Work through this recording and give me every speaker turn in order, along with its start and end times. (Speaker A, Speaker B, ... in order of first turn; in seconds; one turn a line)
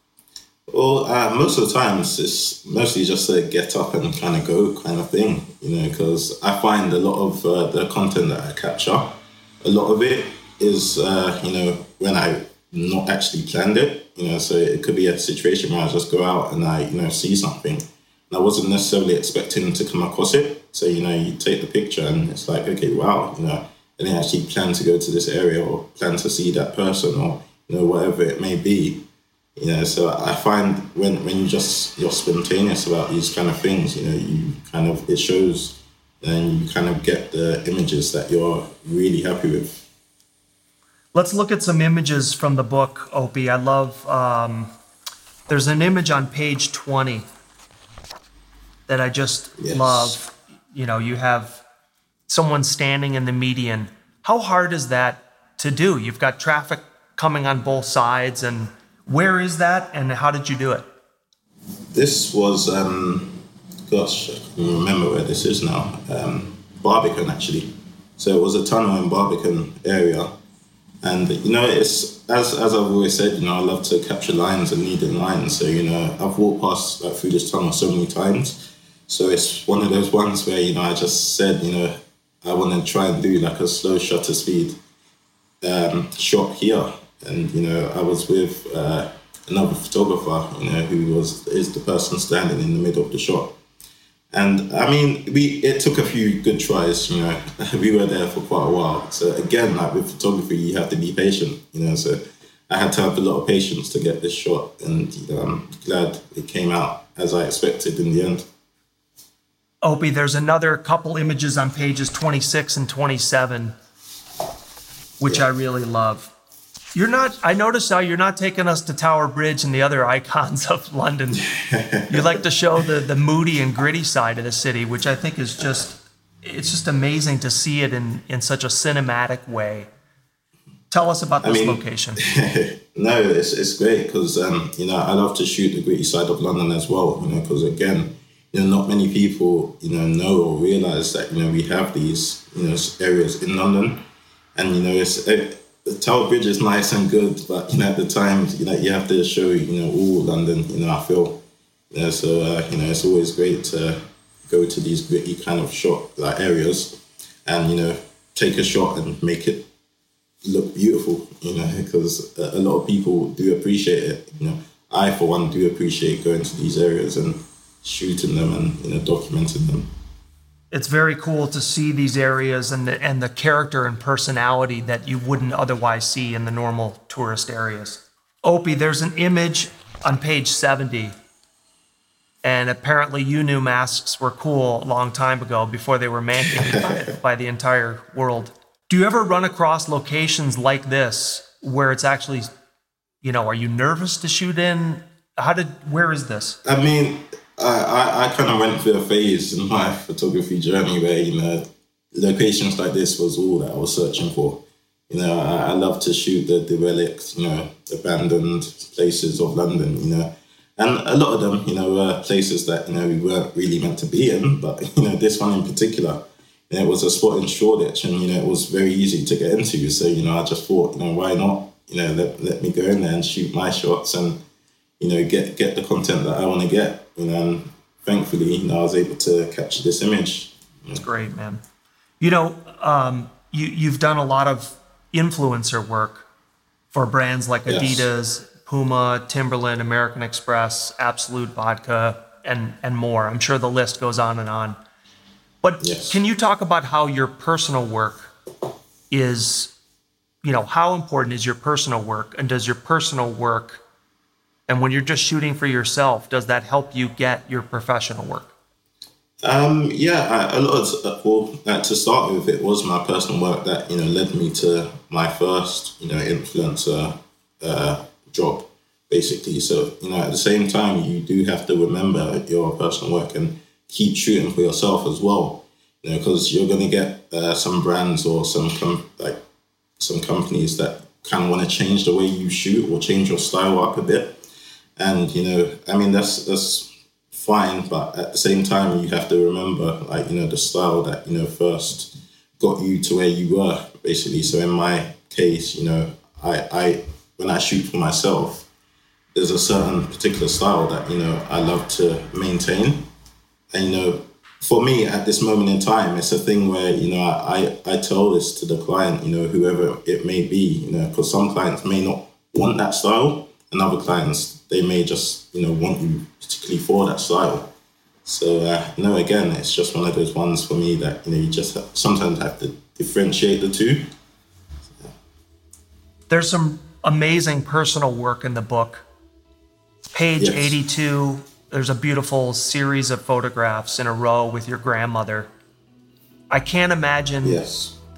Speaker A: 0.7-29.0
Speaker A: 29.6-39.8
Speaker B: 41.1-44.7
Speaker B: 45.5-47.2
Speaker B: 48.9-51.6
Speaker A: 49.6-50.1
Speaker B: 52.3-60.8
Speaker A: 61.9-70.3
Speaker A: 71.0-84.8
Speaker A: 85.6-93.5
Speaker A: 94.3-108.5
Speaker B: 109.8-113.7
Speaker B: 115.2-116.3
Speaker B: 116.9-121.4
Speaker A: 121.3-122.4
Speaker B: 122.1-129.9
Speaker B: 130.9-132.2
Speaker A: 131.4-144.0
Speaker A: 144.6-159.7
Speaker A: 160.4-169.9
Speaker B: 170.7-181.1
Speaker B: 182.4-192.5
Speaker A: 186.5-187.0
Speaker B: 193.2-196.6
Speaker A: 196.6-224.4
Speaker A: 225.0-231.0
Speaker B: 230.9-231.6
Speaker B: 232.2-236.2
Speaker B: 236.9-244.8
Speaker A: 237.7-238.1
Speaker B: 245.6-248.3
Speaker A: 245.8-246.2
Speaker B: 249.1-249.7
Speaker B: 250.4-253.8
Speaker B: 254.7-258.5
Speaker A: 259.4-279.4
Speaker A: 280.0-284.4
Speaker A: 285.0-298.7
Speaker A: 299.3-303.0
Speaker A: 303.7-317.7
Speaker A: 318.2-324.1
Speaker B: 326.3-329.0
Speaker B: 330.1-335.5
Speaker A: 330.4-330.8
Speaker B: 336.5-337.6
Speaker A: 337.4-337.9